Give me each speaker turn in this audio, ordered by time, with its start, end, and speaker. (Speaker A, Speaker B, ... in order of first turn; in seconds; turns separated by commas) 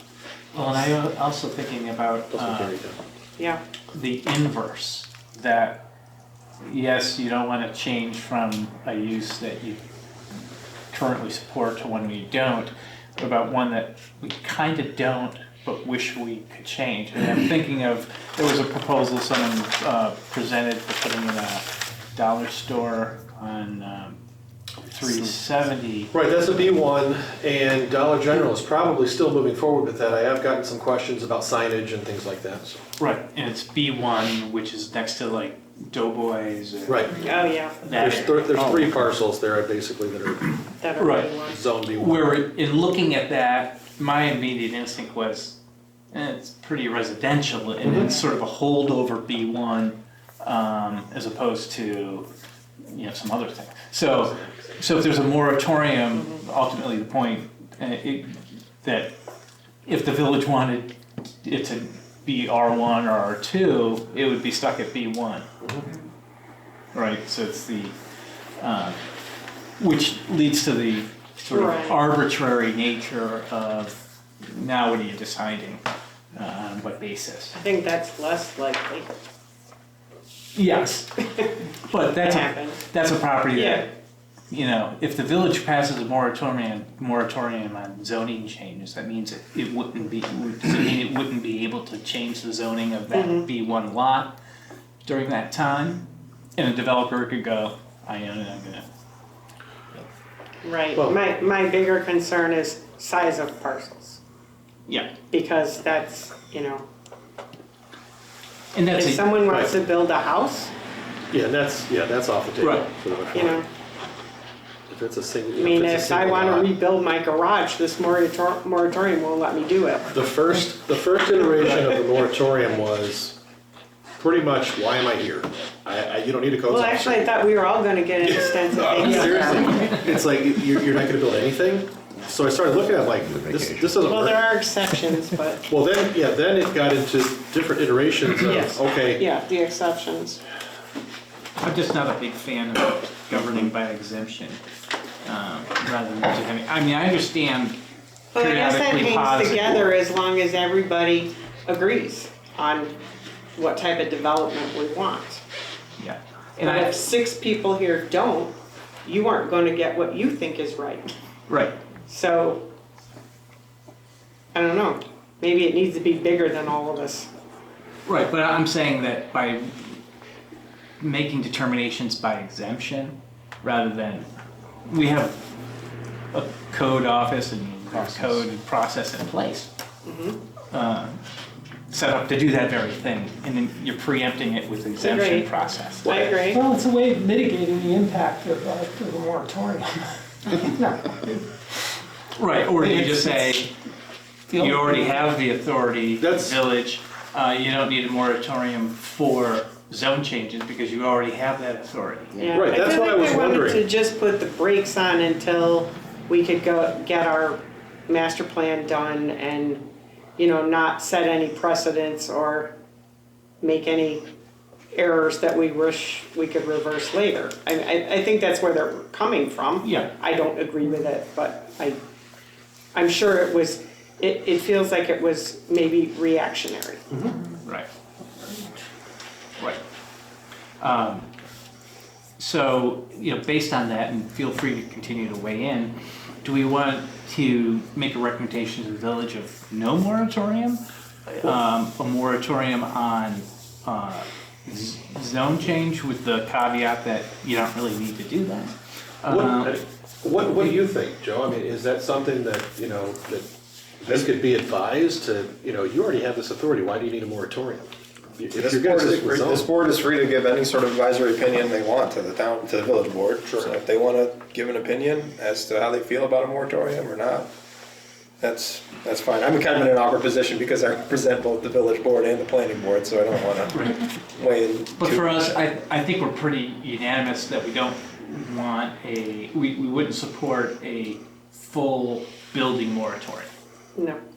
Speaker A: 0.5-2.8, Speaker B: 2.3-3.0, Speaker A: 3.9-5.8, Speaker A: 6.6-9.8, Speaker A: 10.9-24.2, Speaker A: 24.9-26.1, Speaker B: 26.1-32.8, Speaker A: 33.0-39.0, Speaker B: 36.9-37.2, Speaker C: 37.2-37.8, Speaker B: 37.9-40.7, Speaker C: 40.8-41.6, Speaker A: 41.0-41.3, Speaker B: 41.4-42.4, Speaker A: 42.0-45.6, Speaker A: 46.1-52.3, Speaker B: 47.8-48.1, Speaker A: 52.9-59.2, Speaker B: 54.2-55.1, Speaker A: 59.8-65.5, Speaker B: 65.6-65.9, Speaker A: 66.9-67.9, Speaker A: 68.6-69.0, Speaker A: 69.8-75.8, Speaker C: 71.5-72.0, Speaker A: 76.3-77.6, Speaker C: 77.5-79.1, Speaker A: 80.5-83.9, Speaker C: 82.2-82.8, Speaker C: 83.5-83.8, Speaker A: 84.5-94.3, Speaker C: 93.1-93.5, Speaker A: 95.0-98.8, Speaker C: 100.6-104.2, Speaker B: 101.0-101.2, Speaker A: 104.9-105.1, Speaker C: 105.3-106.8, Speaker A: 108.7-109.3, Speaker C: 108.9-110.7, Speaker B: 109.5-109.7, Speaker B: 111.3-113.7, Speaker A: 112.6-112.9, Speaker C: 113.3-113.7, Speaker B: 114.9-116.7, Speaker C: 115.5-120.1, Speaker B: 120.1-123.4, Speaker B: 124.2-127.3, Speaker C: 126.7-129.8, Speaker D: 128.3-129.1, Speaker B: 129.0-134.4, Speaker A: 129.1-130.0, Speaker C: 134.0-135.6, Speaker B: 135.7-139.2, Speaker C: 138.4-140.4, Speaker A: 141.6-144.6, Speaker A: 145.2-147.8, Speaker C: 148.3-153.0, Speaker A: 148.3-149.9, Speaker C: 153.6-155.4, Speaker A: 156.0-156.9, Speaker C: 156.6-161.1, Speaker A: 161.5-161.8, Speaker C: 162.1-162.7, Speaker C: 164.5-167.3, Speaker A: 168.1-170.0, Speaker A: 171.0-174.3, Speaker A: 174.8-175.6, Speaker A: 176.3-179.7, Speaker B: 177.9-178.4, Speaker C: 180.0-180.4, Speaker A: 180.7-181.2, Speaker A: 181.9-186.3, Speaker C: 185.0-185.5, Speaker B: 186.0-186.4, Speaker C: 186.0-186.6, Speaker E: 186.4-191.5, Speaker A: 192.3-193.7, Speaker E: 192.8-193.6, Speaker E: 194.5-195.1, Speaker A: 194.5-202.5, Speaker B: 196.2-196.6, Speaker C: 202.3-209.8, Speaker B: 202.5-203.8, Speaker C: 210.4-212.8, Speaker C: 213.6-214.2, Speaker C: 214.9-222.0, Speaker A: 219.8-220.1, Speaker C: 222.9-227.2, Speaker A: 230.8-231.3, Speaker A: 232.4-240.8, Speaker A: 241.3-249.8, Speaker B: 249.2-253.5, Speaker B: 254.0-259.6, Speaker D: 258.5-267.5, Speaker B: 263.4-263.7, Speaker D: 268.4-275.5, Speaker A: 273.7-274.0, Speaker A: 275.0-283.5